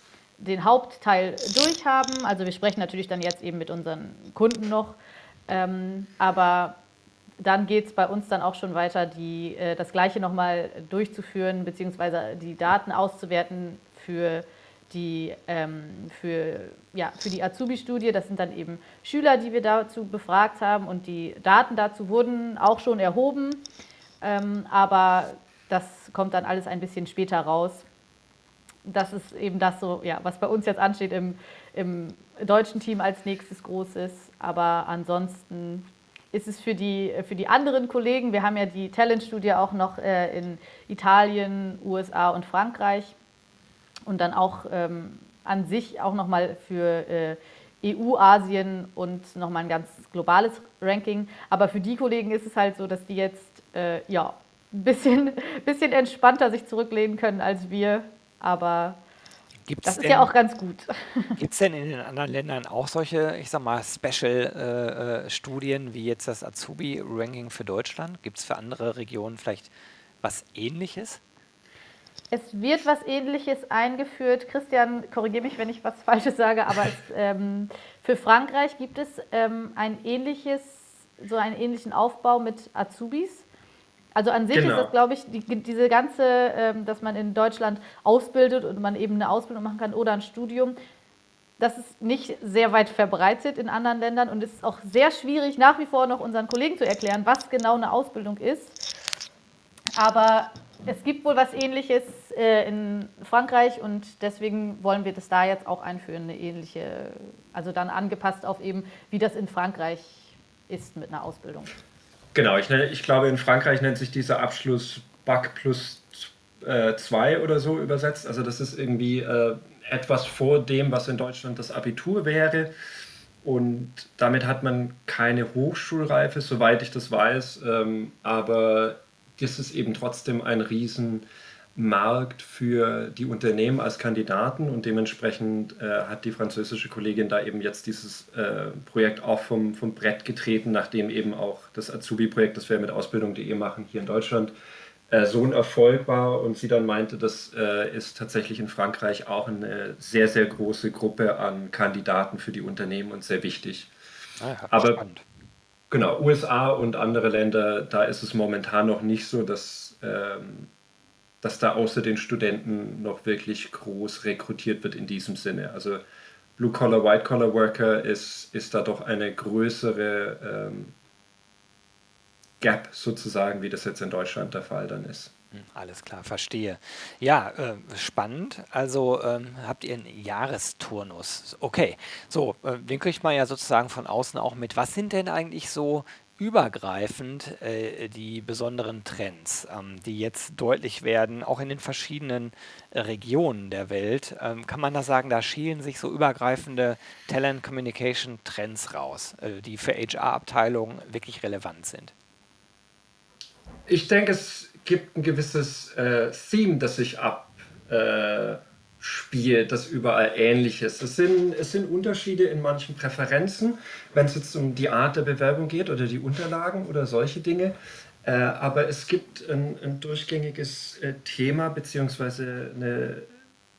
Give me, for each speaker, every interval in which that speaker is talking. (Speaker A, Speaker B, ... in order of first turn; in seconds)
Speaker A: 0.4-6.8, 7.4-23.6, 24.2-27.9, 28.9-43.2, 44.1-59.0, 59.9-61.4, 72.3-83.5, 84.2-90.8, 91.6-98.8, 100.0-111.7
Speaker B: 59.7-60.3, 61.4-69.7, 70.2-71.2, 154.4-155.2, 175.5-202.1
Speaker C: 84.5-84.9, 112.3-122.7, 123.4-144.5, 145.1-153.9, 154.7-155.0, 155.9-160.7, 161.4-166.0, 166.6-170.9, 172.6-175.3, 203.9-223.3